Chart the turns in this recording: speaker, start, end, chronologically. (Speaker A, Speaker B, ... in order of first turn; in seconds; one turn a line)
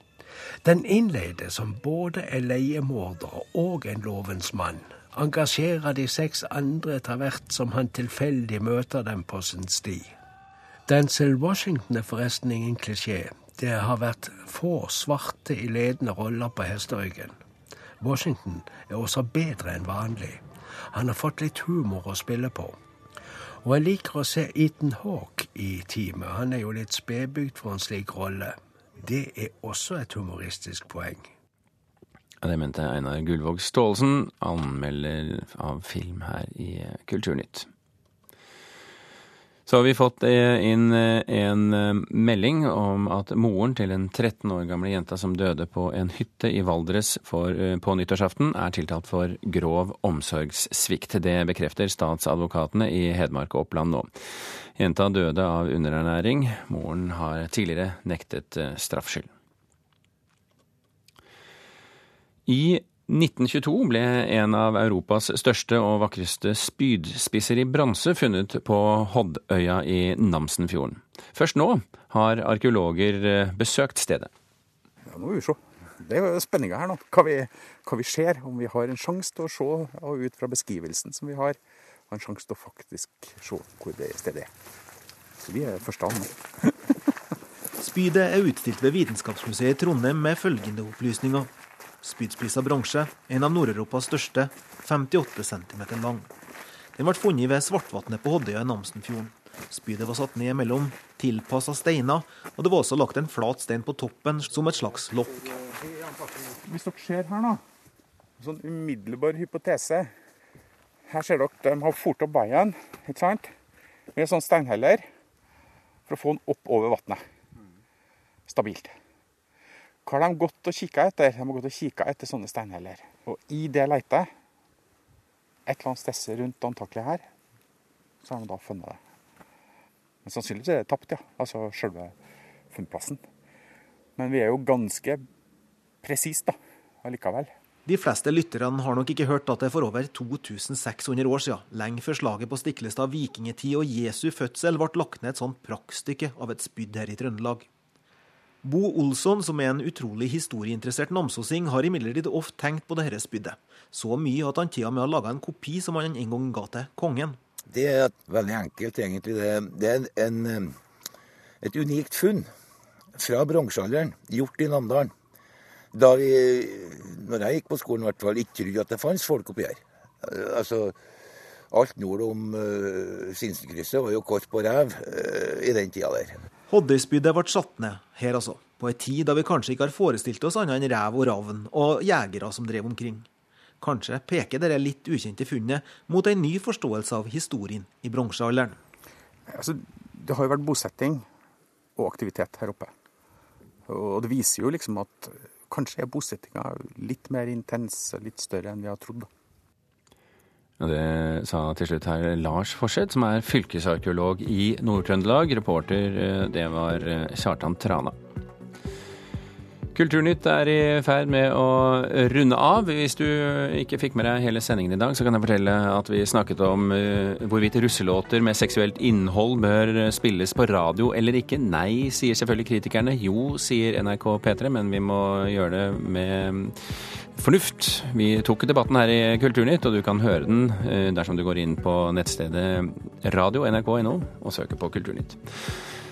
Speaker A: 0.6-10.2
Speaker A: 10.9-17.4
Speaker A: 18.0-22.8
Speaker A: 23.6-31.3
Speaker B: 32.4-37.7
Speaker B: 39.7-54.1
Speaker B: 54.8-59.3
Speaker B: 62.5-74.3
Speaker C: 75.1-81.6
Speaker C: 82.1-84.5
Speaker C: 85.4-86.7
Speaker D: 87.8-91.5
Speaker D: 92.0-96.3
Speaker D: 97.0-105.5
Speaker C: 106.2-107.6
Speaker C: 108.4-110.1
Speaker C: 111.1-113.5
Speaker C: 114.2-115.1
Speaker C: 116.1-117.2
Speaker C: 118.5-118.9
Speaker C: 120.0-124.3
Speaker C: 125.7-127.3
Speaker C: 128.2-129.0
Speaker C: 130.2-132.2
Speaker C: 132.7-133.2
Speaker C: 134.2-135.2
Speaker C: 136.0-137.5
Speaker D: 137.9-147.7
Speaker D: 148.6-157.4
Speaker E: 157.7-160.8
Speaker E: 161.6-162.5
Speaker E: 163.2-165.1
Speaker E: 165.9-171.0
Speaker E: 171.7-176.4
Speaker D: 176.7-183.3
Speaker D: 183.8-188.8
Speaker C: 189.5-191.3
Speaker C: 192.0-192.9
Speaker C: 193.9-199.3
Speaker B: 200.8-208.2
Speaker B: 209.9-226.8
Speaker B: 227.4-235.4